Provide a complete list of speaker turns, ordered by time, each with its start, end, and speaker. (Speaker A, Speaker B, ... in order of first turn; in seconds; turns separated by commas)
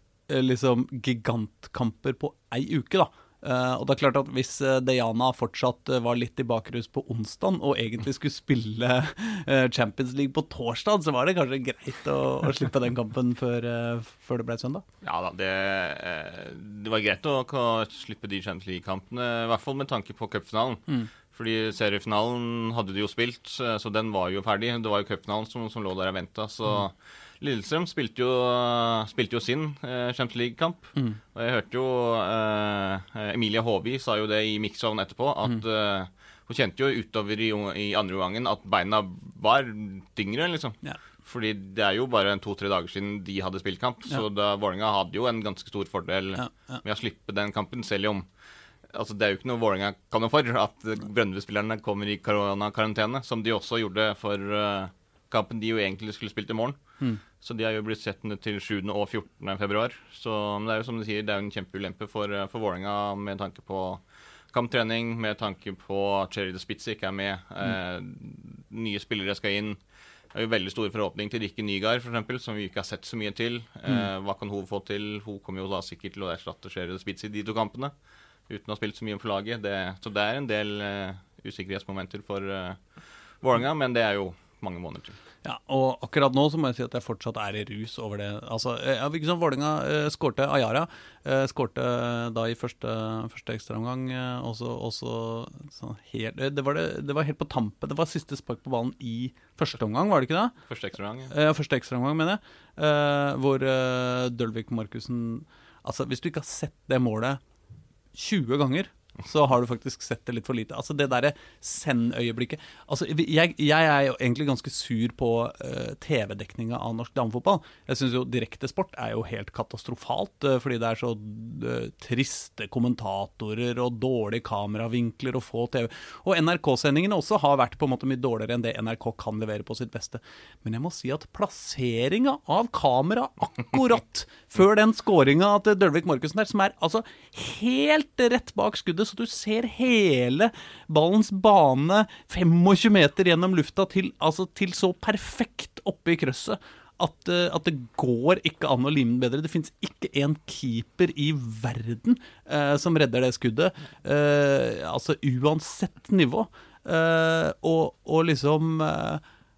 Speaker A: 0.3-14.8, Speaker B: 15.0-48.2, Speaker A: 46.4-46.8, Speaker B: 48.9-56.8, Speaker B: 57.4-64.0, Speaker B: 64.5-69.8, Speaker B: 70.3-77.9, Speaker B: 78.5-82.8, Speaker B: 83.4-85.2, Speaker A: 85.4-100.5, Speaker B: 100.7-101.3, Speaker A: 101.3-107.4, Speaker A: 108.1-159.2